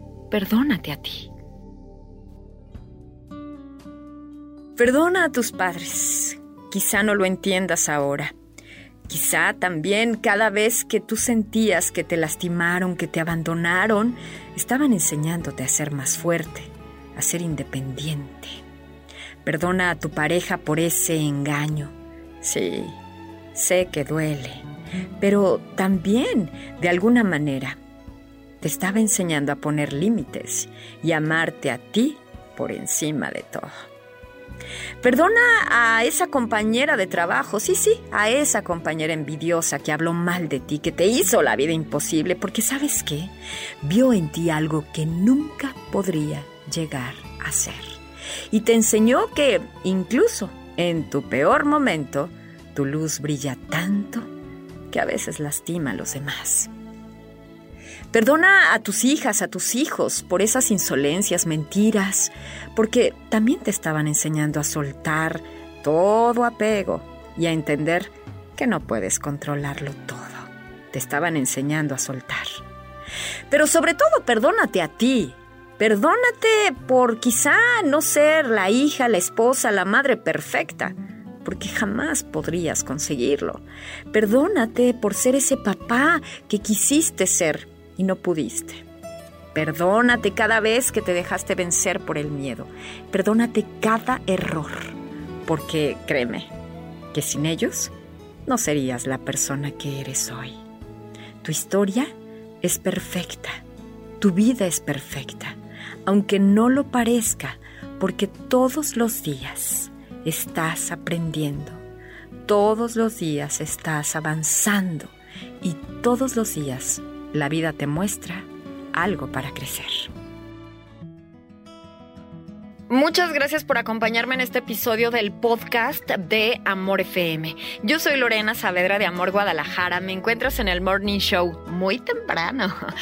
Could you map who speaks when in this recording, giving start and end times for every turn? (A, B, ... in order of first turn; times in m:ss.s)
0:00.3-0:01.3 A
0:04.8-0:08.3 A
0:09.1-0:18.6 A
0:19.4-0:23.0 A
0:23.6-0:24.7 A
0:25.2-0:27.8 A
0:28.6-0:33.7 A
0:35.0-0:48.0 A
0:48.5-0:54.3 A
0:54.9-0:56.7 A
0:58.1-1:12.6 A
1:13.5-1:28.8 A
1:29.5-1:36.5 A
1:37.1-1:37.9 A
1:38.5-1:40.6 A
1:41.4-1:43.6 A
1:44.2-1:51.8 A
1:52.5-2:00.1 A
2:02.9-2:12.8 A